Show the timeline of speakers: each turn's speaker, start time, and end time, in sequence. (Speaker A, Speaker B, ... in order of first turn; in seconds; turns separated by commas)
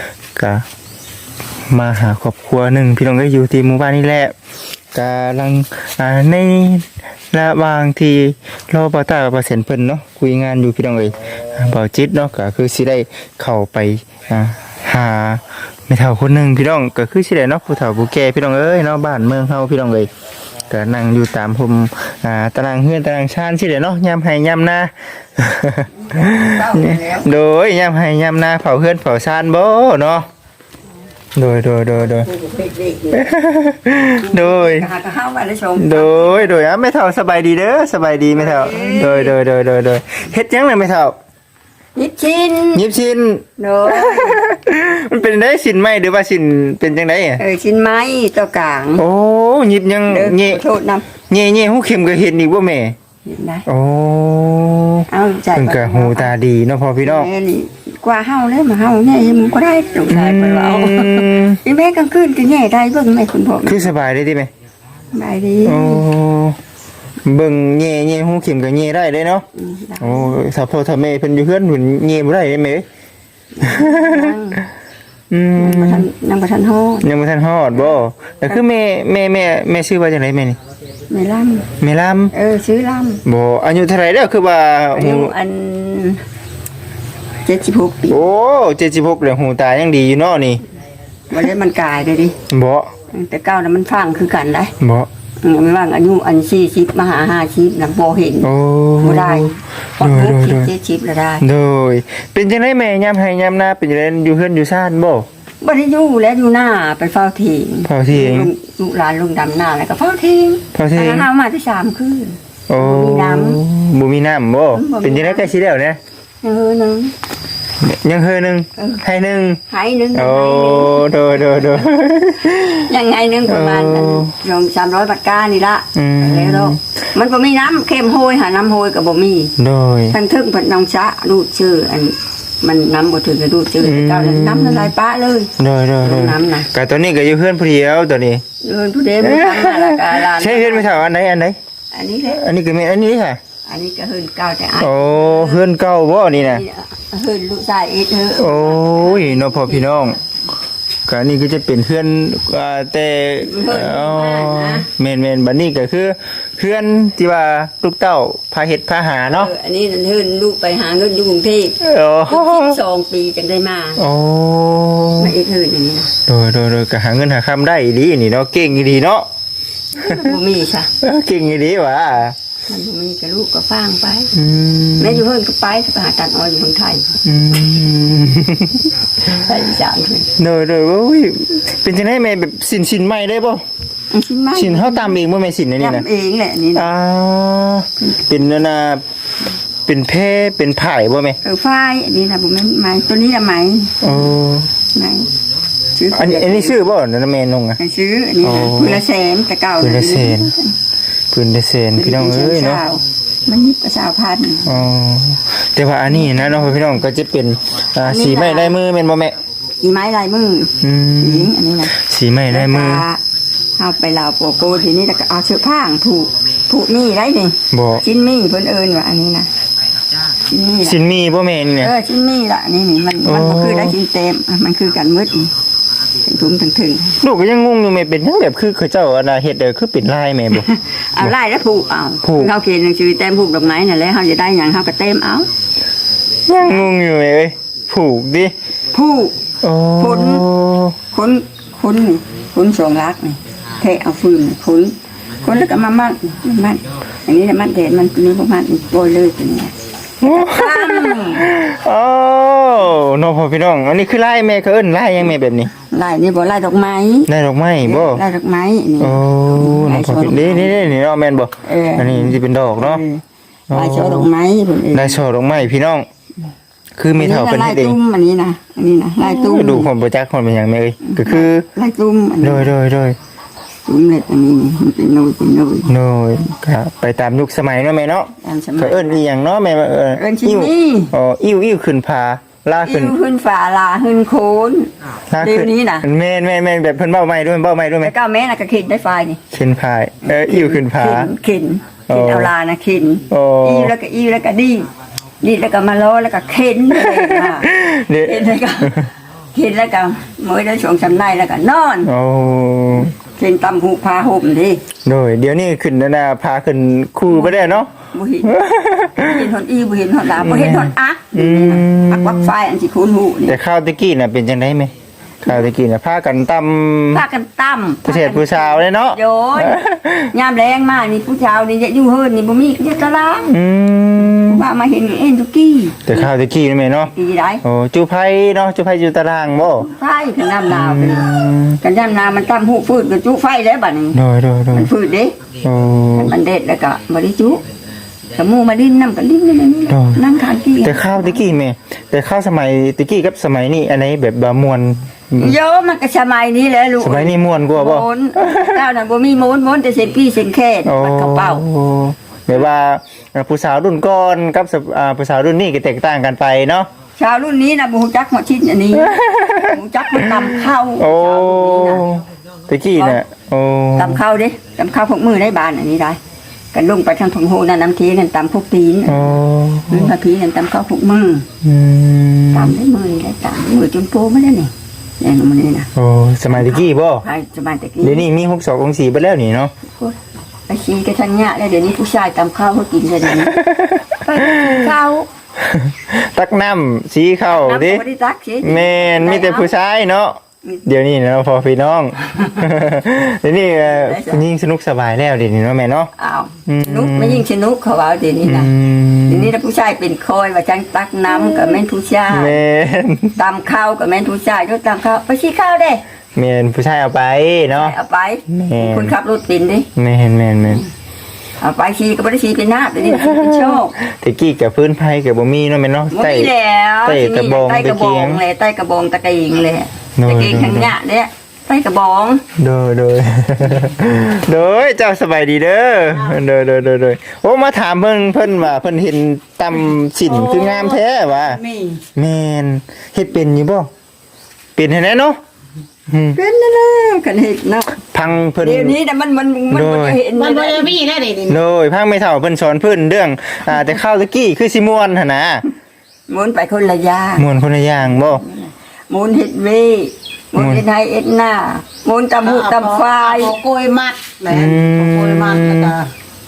Speaker A: 0.3-0.6, Speaker A: 1.7-4.3, Speaker A: 4.9-20.1, Speaker A: 20.7-30.2, Speaker B: 26.1-27.3, Speaker A: 31.4-32.3, Speaker B: 32.2-33.2, Speaker A: 33.1-34.9, Speaker B: 34.2-36.6, Speaker A: 35.8-41.1, Speaker B: 38.3-39.3, Speaker B: 42.0-42.8, Speaker A: 42.7-47.4, Speaker B: 43.6-44.4, Speaker B: 47.4-49.0, Speaker A: 49.0-50.6, Speaker B: 50.1-51.0, Speaker A: 51.3-52.9, Speaker B: 53.2-53.6, Speaker A: 53.7-57.3, Speaker B: 55.1-56.3, Speaker B: 57.0-63.9, Speaker A: 60.1-61.6, Speaker A: 63.6-64.5, Speaker B: 65.1-66.0, Speaker A: 65.6-66.6, Speaker A: 67.2-69.5, Speaker B: 69.5-70.4, Speaker A: 70.0-72.8, Speaker B: 73.5-74.6, Speaker A: 73.7-74.3, Speaker A: 75.3-76.1, Speaker B: 75.5-77.0, Speaker A: 77.0-80.6, Speaker B: 81.1-81.7, Speaker A: 81.8-82.3, Speaker B: 82.3-83.2, Speaker A: 83.2-85.3, Speaker B: 84.9-86.2, Speaker B: 87.4-88.2, Speaker A: 88.1-90.6, Speaker B: 91.3-92.3, Speaker A: 92.5-92.9, Speaker B: 93.1-94.7, Speaker A: 94.8-95.1, Speaker B: 95.4-98.5, Speaker A: 98.4-100.7, Speaker B: 99.0-101.4, Speaker A: 101.4-105.2, Speaker B: 105.6-113.6, Speaker A: 107.8-108.5, Speaker A: 110.7-111.3, Speaker A: 112.7-116.0, Speaker B: 114.7-115.5, Speaker B: 116.4-117.1, Speaker A: 117.8-119.6, Speaker B: 118.8-119.0, Speaker B: 119.7-121.8, Speaker A: 120.1-122.9, Speaker B: 122.9-129.5, Speaker A: 123.5-124.3, Speaker A: 125.9-126.8, Speaker A: 129.6-130.2, Speaker B: 130.1-136.7, Speaker A: 133.8-134.9, Speaker A: 135.6-138.4, Speaker B: 138.6-140.9, Speaker A: 139.2-141.6, Speaker B: 141.9-142.4, Speaker A: 142.3-143.4, Speaker B: 143.7-145.7, Speaker A: 144.8-146.6, Speaker B: 146.4-149.9, Speaker A: 148.4-150.2, Speaker A: 151.1-159.5, Speaker B: 153.4-154.9, Speaker B: 159.3-164.0, Speaker A: 161.8-162.8, Speaker A: 164.0-165.3, Speaker B: 165.2-166.1, Speaker A: 166.2-169.2, Speaker B: 169.9-170.9, Speaker A: 171.0-172.3, Speaker B: 172.7-174.3, Speaker A: 174.3-175.2, Speaker B: 175.0-177.2, Speaker A: 177.2-178.9, Speaker B: 179.3-180.3, Speaker A: 180.4-183.6, Speaker B: 184.1-185.2, Speaker A: 184.5-186.0, Speaker B: 185.8-186.8, Speaker A: 186.8-189.0, Speaker A: 189.8-191.4, Speaker B: 191.4-194.3, Speaker A: 194.0-194.7, Speaker B: 194.9-195.3, Speaker B: 195.9-196.8, Speaker A: 196.1-197.8, Speaker B: 197.8-200.7, Speaker A: 198.4-199.0, Speaker A: 199.8-200.5, Speaker A: 201.3-202.8, Speaker B: 201.9-204.8, Speaker A: 204.6-209.3, Speaker B: 206.1-206.6, Speaker B: 208.0-208.8, Speaker B: 209.8-211.9, Speaker A: 210.8-213.0, Speaker B: 212.5-213.2, Speaker B: 213.8-219.5, Speaker A: 217.7-218.0, Speaker B: 220.4-221.0, Speaker A: 220.8-221.9, Speaker B: 221.8-225.5, Speaker A: 223.2-224.0, Speaker B: 226.2-227.2, Speaker A: 227.2-230.7, Speaker B: 230.5-235.5, Speaker A: 232.2-232.5, Speaker A: 236.5-238.5, Speaker B: 236.6-236.8, Speaker B: 238.9-239.4, Speaker A: 239.6-240.9, Speaker B: 240.0-240.4, Speaker B: 241.1-249.7, Speaker A: 250.2-255.7, Speaker B: 250.3-251.4, Speaker B: 255.9-257.3, Speaker A: 257.3-258.2, Speaker B: 257.8-260.8, Speaker A: 259.0-263.0, Speaker B: 261.6-265.2, Speaker A: 263.7-264.3, Speaker A: 264.9-266.1, Speaker A: 267.0-268.0, Speaker B: 267.2-269.9, Speaker A: 269.2-271.6, Speaker B: 271.0-272.7, Speaker A: 272.4-273.1, Speaker B: 273.9-275.9, Speaker A: 275.9-283.1, Speaker B: 278.4-279.2, Speaker B: 280.1-281.1, Speaker B: 282.8-286.1, Speaker A: 285.3-288.1, Speaker B: 288.0-289.4, Speaker A: 289.5-291.3, Speaker B: 290.2-294.9, Speaker A: 292.1-292.5, Speaker A: 293.3-293.9, Speaker B: 295.4-297.7, Speaker A: 296.9-299.1, Speaker B: 298.2-298.9, Speaker B: 299.5-302.1, Speaker A: 302.0-303.1, Speaker B: 303.1-304.8, Speaker A: 305.0-309.4, Speaker B: 307.3-308.5, Speaker B: 309.2-313.6, Speaker A: 310.3-312.5, Speaker A: 313.5-314.9, Speaker A: 315.4-317.2, Speaker B: 317.1-319.8, Speaker A: 318.0-320.3, Speaker B: 320.3-323.5, Speaker A: 323.5-324.6, Speaker B: 324.3-326.1, Speaker A: 326.0-329.9, Speaker B: 327.1-327.6, Speaker B: 329.7-331.3, Speaker A: 330.7-331.8, Speaker B: 331.8-334.2, Speaker A: 334.1-334.9, Speaker B: 334.7-335.4, Speaker A: 335.6-336.3, Speaker B: 336.1-337.6, Speaker B: 338.3-341.4, Speaker A: 339.9-340.2, Speaker A: 340.8-345.6, Speaker B: 345.4-351.6, Speaker A: 347.0-348.8, Speaker A: 350.8-356.9, Speaker B: 357.2-362.0, Speaker A: 359.0-360.5, Speaker A: 361.0-364.2, Speaker B: 363.9-366.2, Speaker B: 366.7-369.4, Speaker A: 369.1-370.1, Speaker B: 369.9-371.4, Speaker A: 371.6-372.7, Speaker B: 372.5-375.9, Speaker A: 375.9-377.2, Speaker B: 376.5-378.3, Speaker A: 378.0-379.7, Speaker B: 380.7-383.6, Speaker A: 383.5-384.8, Speaker B: 384.2-385.3, Speaker A: 385.6-388.0, Speaker B: 387.5-389.7, Speaker A: 388.6-396.1, Speaker B: 393.8-394.4, Speaker B: 396.2-398.7, Speaker A: 396.6-397.4, Speaker A: 398.4-399.5, Speaker B: 399.3-402.6, Speaker A: 402.3-403.4, Speaker B: 403.4-406.0, Speaker A: 406.3-407.9, Speaker B: 407.8-409.9, Speaker A: 408.5-409.1, Speaker A: 409.9-410.8, Speaker B: 411.6-413.9, Speaker A: 413.1-416.5, Speaker B: 416.1-422.4, Speaker A: 417.0-418.4, Speaker A: 420.2-420.9, Speaker A: 422.6-431.6, Speaker C: 426.1-426.4, Speaker C: 430.2-432.0, Speaker A: 432.1-433.9, Speaker A: 434.8-435.4, Speaker A: 436.1-436.4, Speaker B: 436.3-437.9, Speaker A: 438.0-438.9, Speaker B: 438.6-440.9, Speaker A: 439.7-440.2, Speaker C: 440.3-441.6, Speaker A: 441.5-445.6, Speaker B: 446.3-447.4, Speaker A: 447.4-448.4, Speaker B: 448.2-453.6, Speaker A: 450.6-450.8, Speaker C: 452.4-456.1, Speaker A: 454.5-455.9